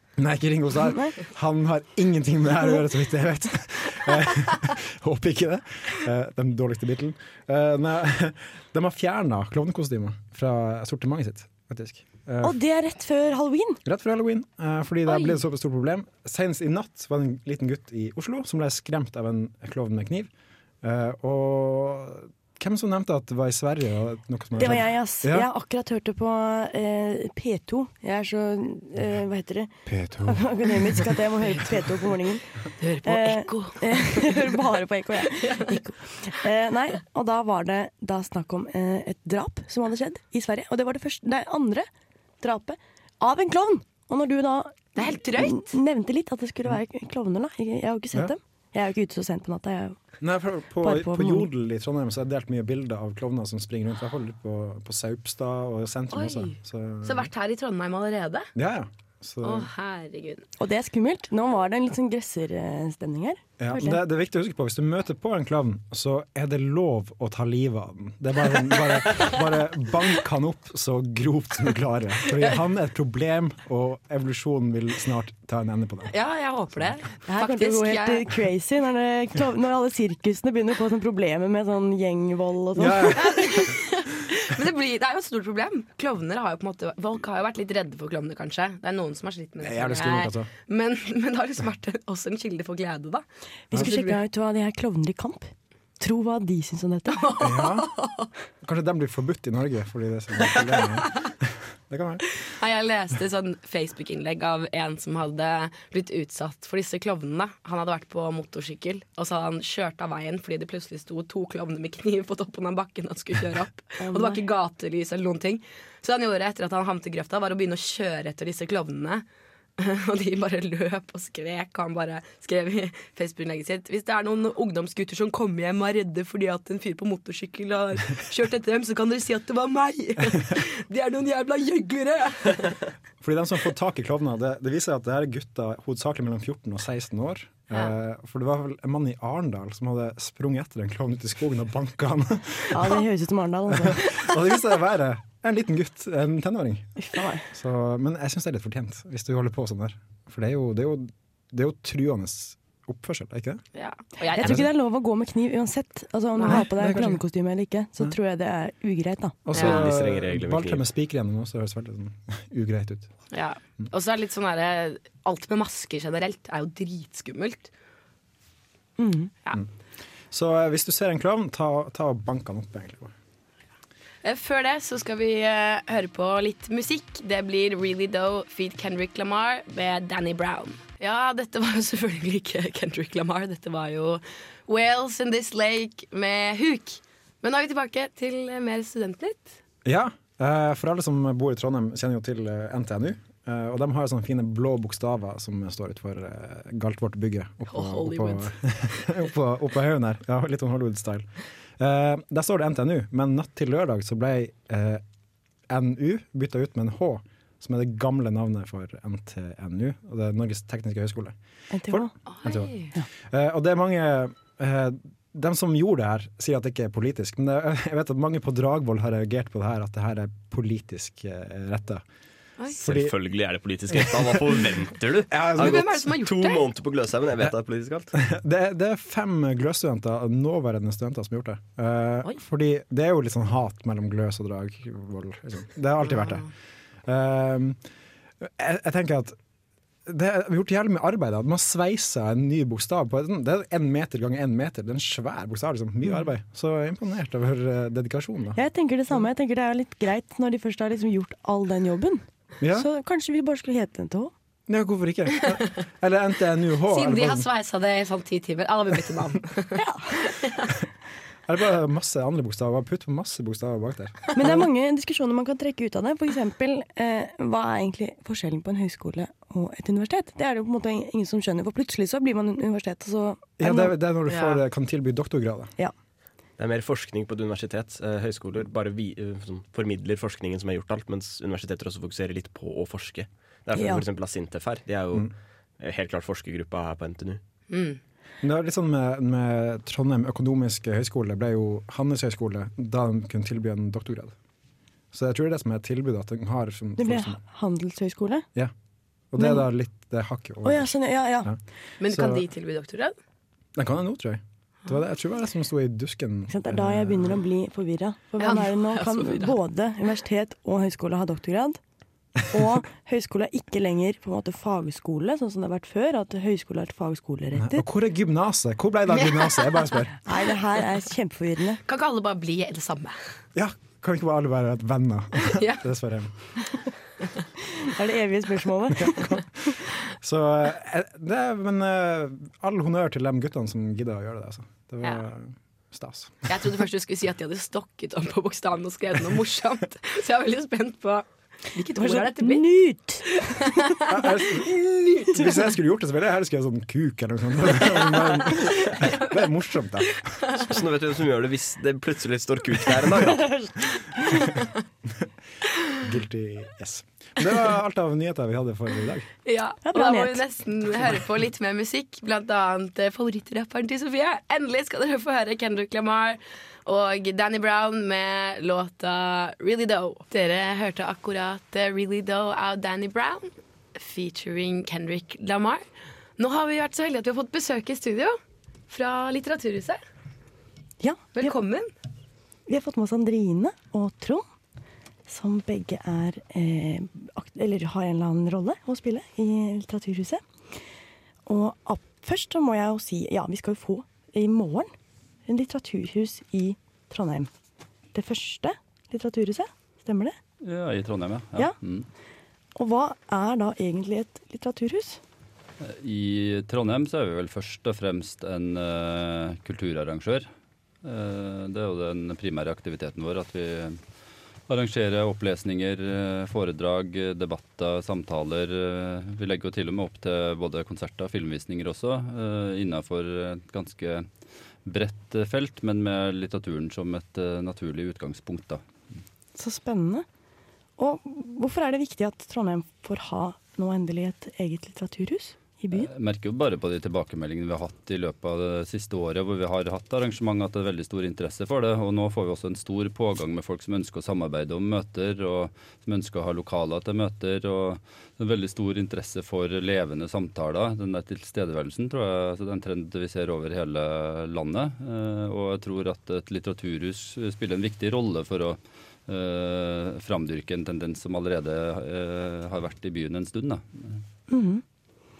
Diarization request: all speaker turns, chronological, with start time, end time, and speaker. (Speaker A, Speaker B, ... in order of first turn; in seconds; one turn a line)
Speaker A: 0.2-12.6
Speaker B: 12.4-13.8
Speaker A: 13.8-20.3
Speaker A: 20.8-25.5
Speaker B: 24.6-32.5
Speaker A: 29.9-31.2
Speaker C: 32.8-34.5
Speaker B: 33.0-41.9
Speaker C: 35.3-35.7
Speaker B: 42.4-50.0
Speaker C: 45.0-45.7
Speaker A: 50.2-57.3
Speaker B: 50.8-51.5
Speaker C: 56.1-58.5
Speaker A: 58.5-59.7
Speaker C: 59.4-60.4
Speaker B: 60.6-64.0
Speaker A: 63.6-76.1
Speaker C: 76.1-78.3
Speaker B: 77.2-83.5
Speaker A: 82.8-83.7
Speaker C: 83.1-94.2
Speaker A: 89.6-90.5
Speaker B: 93.7-97.2
Speaker C: 97.1-98.3
Speaker A: 97.4-97.9
Speaker A: 98.6-102.2
Speaker C: 102.5-119.2
Speaker B: 114.0-114.4
Speaker C: 119.8-132.8
Speaker A: 133.2-143.0
Speaker B: 142.7-144.1
Speaker A: 143.7-146.9
Speaker B: 147.0-147.4
Speaker A: 147.5-153.6
Speaker C: 153.7-154.7
Speaker B: 154.2-159.4
Speaker A: 154.4-154.7
Speaker C: 156.4-157.0
Speaker A: 156.5-157.2
Speaker A: 159.4-163.1
Speaker D: 159.5-160.8
Speaker C: 159.6-159.9
Speaker C: 163.3-167.7
Speaker B: 169.0-169.3
Speaker A: 170.3-173.1
Speaker C: 174.2-189.6
Speaker A: 189.8-205.0
Speaker C: 197.7-198.5
Speaker A: 205.7-211.3
Speaker B: 211.7-212.1
Speaker A: 211.9-212.7
Speaker C: 212.3-212.9
Speaker A: 213.2-222.0
Speaker A: 222.7-223.1
Speaker D: 222.8-228.1
Speaker A: 224.0-224.3
Speaker A: 225.3-226.1
Speaker C: 225.6-226.7
Speaker A: 228.1-236.5
Speaker A: 237.0-237.8
Speaker A: 238.4-239.4
Speaker A: 240.1-248.6
Speaker B: 248.6-254.3
Speaker A: 252.6-252.9
Speaker A: 254.7-257.5
Speaker C: 256.9-260.7
Speaker A: 261.5-264.6
Speaker B: 264.3-273.9
Speaker A: 273.6-275.7
Speaker C: 274.3-274.6
Speaker D: 276.6-287.4
Speaker B: 283.7-284.0
Speaker C: 287.7-288.0
Speaker A: 288.4-294.3
Speaker A: 295.1-297.4
Speaker B: 297.0-298.5
Speaker A: 299.3-302.4
Speaker B: 299.4-299.6
Speaker B: 300.6-301.5
Speaker C: 302.0-303.1
Speaker A: 303.8-307.4
Speaker B: 306.5-311.8
Speaker C: 308.4-309.6
Speaker B: 312.5-317.8
Speaker A: 317.5-320.2
Speaker C: 319.2-319.8
Speaker B: 320.2-321.8
Speaker C: 321.8-323.1
Speaker A: 323.5-326.3
Speaker C: 325.4-325.8
Speaker B: 327.8-329.3
Speaker A: 328.9-336.7
Speaker C: 336.5-342.6
Speaker B: 341.9-343.4
Speaker C: 343.4-344.2
Speaker A: 344.1-350.2
Speaker C: 345.2-345.4
Speaker C: 348.5-349.4
Speaker D: 350.6-353.5
Speaker B: 353.3-354.4
Speaker A: 356.0-359.3
Speaker C: 359.4-375.8
Speaker B: 359.8-360.4
Speaker C: 376.4-378.4
Speaker C: 378.9-380.0
Speaker B: 381.0-381.5
Speaker C: 381.4-381.9
Speaker B: 382.7-384.4
Speaker B: 385.3-390.4
Speaker B: 391.4-394.9
Speaker B: 395.4-397.5
Speaker B: 398.1-400.4
Speaker E: 400.6-402.1
Speaker B: 402.8-405.2
Speaker E: 405.8-410.5
Speaker E: 411.0-414.0
Speaker E: 414.7-424.3
Speaker E: 424.8-428.8
Speaker B: 429.6-430.2
Speaker B: 431.0-436.1
Speaker E: 435.9-464.2
Speaker B: 464.5-464.8